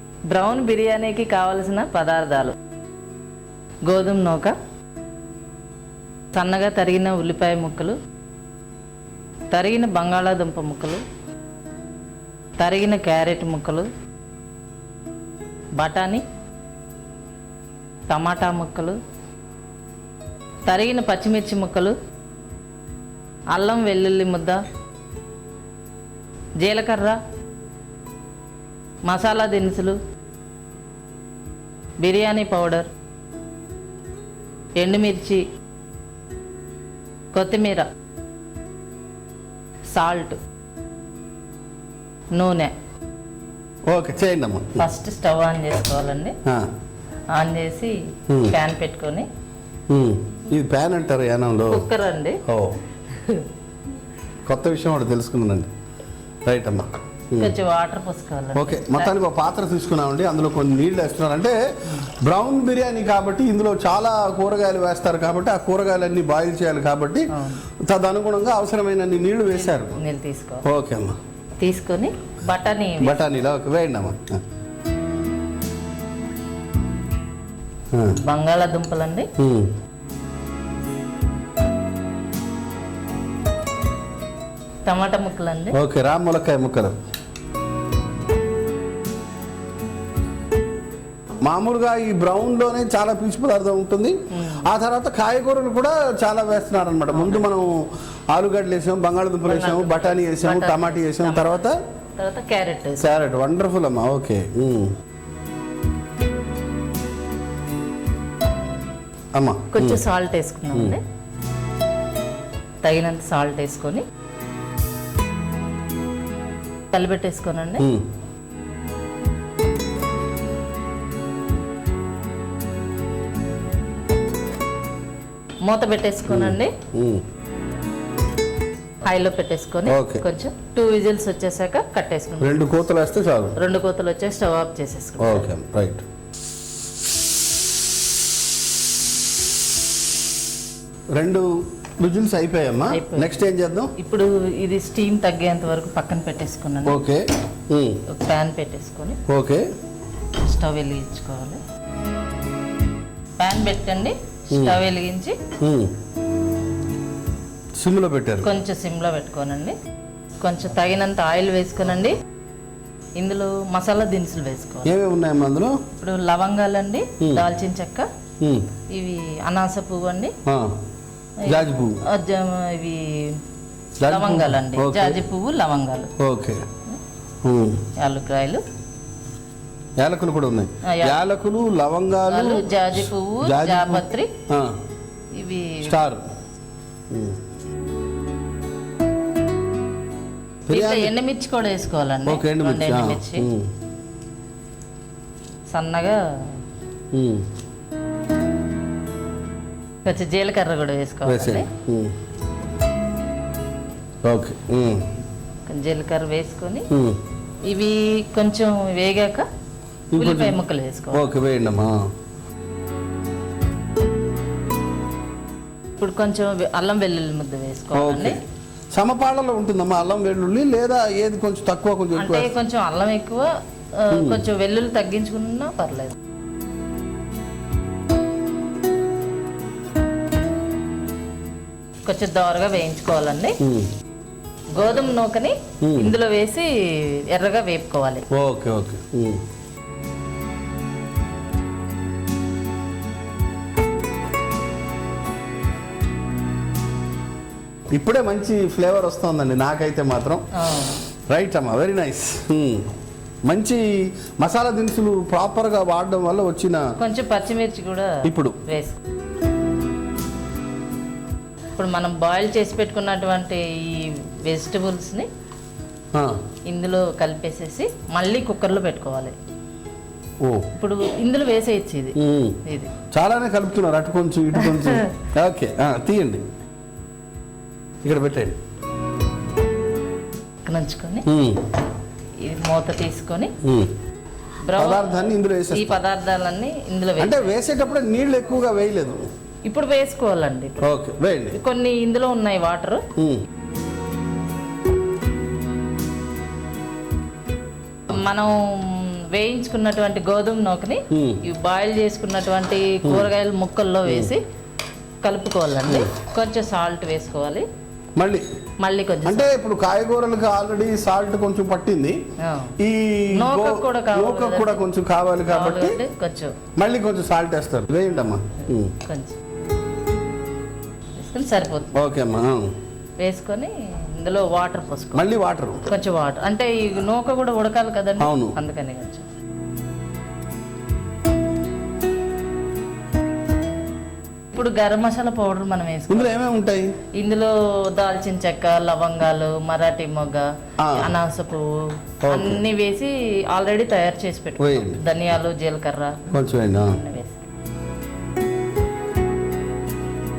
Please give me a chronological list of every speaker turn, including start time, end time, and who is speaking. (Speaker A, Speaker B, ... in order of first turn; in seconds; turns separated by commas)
Speaker A: 0.3-2.5, Speaker A: 3.9-4.5, Speaker A: 6.3-8.0, Speaker A: 9.5-11.0, Speaker A: 12.6-13.9, Speaker A: 15.8-16.2, Speaker A: 18.1-19.0, Speaker A: 20.7-21.9, Speaker A: 23.5-24.6, Speaker A: 26.6-27.2, Speaker A: 29.1-30.0, Speaker A: 32.0-32.9, Speaker A: 34.8-35.4, Speaker A: 37.3-37.9, Speaker A: 39.9-40.4, Speaker A: 42.3-42.7, Speaker B: 43.9-44.9, Speaker A: 44.8-46.4, Speaker A: 47.3-49.3, Speaker B: 48.3-48.6, Speaker B: 49.9-51.9, Speaker A: 51.7-52.4, Speaker B: 52.5-52.8, Speaker A: 53.1-53.5, Speaker B: 54.4-55.7, Speaker B: 56.5-57.5, Speaker A: 57.4-59.1, Speaker B: 58.5-67.3, Speaker A: 67.3-67.6, Speaker B: 67.8-70.0, Speaker A: 69.8-70.7, Speaker B: 70.6-71.2, Speaker A: 71.6-73.2, Speaker B: 73.0-74.4, Speaker B: 77.9-78.2, Speaker A: 78.1-79.3, Speaker B: 79.4-79.7, Speaker A: 84.8-85.8, Speaker B: 85.7-87.0, Speaker B: 91.4-101.8, Speaker A: 94.3-94.7, Speaker A: 97.1-97.5, Speaker A: 99.5-101.6, Speaker A: 102.2-103.1, Speaker B: 103.0-104.9, Speaker B: 109.3-110.0, Speaker A: 109.7-111.0, Speaker A: 112.8-114.0, Speaker A: 116.9-117.9, Speaker B: 117.8-118.0, Speaker A: 125.6-126.7, Speaker B: 126.3-127.2, Speaker A: 129.0-132.7, Speaker B: 129.8-130.2, Speaker B: 132.4-133.6, Speaker A: 133.6-135.5, Speaker B: 135.2-136.0, Speaker B: 141.1-141.5, Speaker B: 142.0-143.9, Speaker A: 142.9-143.4, Speaker A: 144.0-147.0, Speaker B: 146.8-148.0, Speaker A: 148.1-149.2, Speaker B: 149.3-149.7, Speaker A: 150.4-151.6, Speaker A: 153.4-155.4, Speaker B: 154.5-154.8, Speaker B: 155.6-155.9, Speaker B: 157.8-158.5, Speaker A: 158.4-159.8, Speaker A: 160.4-162.2, Speaker A: 163.2-164.9, Speaker B: 164.8-165.8, Speaker A: 165.9-168.1, Speaker B: 167.2-167.4, Speaker B: 168.4-168.7, Speaker A: 168.9-170.3, Speaker B: 170.4-170.7, Speaker A: 171.4-173.4, Speaker B: 171.4-172.0, Speaker B: 174.0-175.2, Speaker A: 174.0-176.1, Speaker B: 176.2-176.6, Speaker B: 177.4-177.8, Speaker A: 177.9-178.6, Speaker B: 180.0-184.8, Speaker A: 180.8-181.2, Speaker A: 182.3-184.3, Speaker A: 185.3-186.0, Speaker B: 185.8-186.2, Speaker B: 187.1-187.4, Speaker B: 190.7-191.1, Speaker A: 190.7-193.5, Speaker B: 192.2-193.7, Speaker A: 195.7-196.2, Speaker B: 197.1-197.5, Speaker A: 200.0-201.7, Speaker B: 201.2-202.1, Speaker B: 204.2-205.1, Speaker A: 205.7-206.9, Speaker B: 206.9-207.2, Speaker A: 207.7-209.5, Speaker B: 210.1-210.6, Speaker A: 210.2-211.3, Speaker B: 211.1-212.0, Speaker A: 216.0-218.4, Speaker B: 217.9-218.4, Speaker B: 218.9-222.5, Speaker A: 222.1-226.1, Speaker B: 224.1-224.5, Speaker A: 232.0-233.6, Speaker B: 233.6-233.9, Speaker A: 234.7-238.2, Speaker B: 235.8-236.1, Speaker B: 238.3-239.4, Speaker B: 247.9-250.5, Speaker A: 250.6-251.0, Speaker B: 251.3-252.9, Speaker B: 253.4-256.9, Speaker A: 257.0-259.0, Speaker B: 258.2-258.6, Speaker A: 261.8-265.3, Speaker A: 266.7-269.3, Speaker B: 270.4-270.7, Speaker A: 270.7-272.9, Speaker B: 272.1-272.6, Speaker B: 273.1-276.4, Speaker A: 274.6-275.1, Speaker B: 278.0-278.6, Speaker A: 280.6-281.2, Speaker B: 281.3-281.6, Speaker A: 282.4-283.5, Speaker B: 283.6-283.9, Speaker A: 284.6-287.6, Speaker B: 284.8-286.0, Speaker B: 287.2-289.2, Speaker A: 289.6-290.8, Speaker B: 290.8-291.6, Speaker A: 291.5-293.0, Speaker B: 293.1-293.4, Speaker A: 298.1-304.4, Speaker B: 301.1-301.4, Speaker B: 303.0-303.3, Speaker B: 304.1-304.3, Speaker A: 305.2-307.6, Speaker B: 308.1-308.4, Speaker A: 308.8-309.5, Speaker B: 309.2-312.2, Speaker A: 312.4-312.8, Speaker B: 312.8-316.0, Speaker A: 313.3-314.8, Speaker A: 315.5-316.6, Speaker B: 316.8-318.9, Speaker A: 319.0-319.4, Speaker A: 321.2-321.9, Speaker B: 321.9-322.7, Speaker A: 323.2-325.3, Speaker B: 325.1-325.9, Speaker A: 325.9-329.2, Speaker B: 328.2-328.6, Speaker A: 334.5-336.4, Speaker B: 336.1-336.9, Speaker A: 337.1-347.4, Speaker B: 340.8-341.1, Speaker B: 342.2-342.6, Speaker B: 344.6-345.0, Speaker B: 346.3-347.0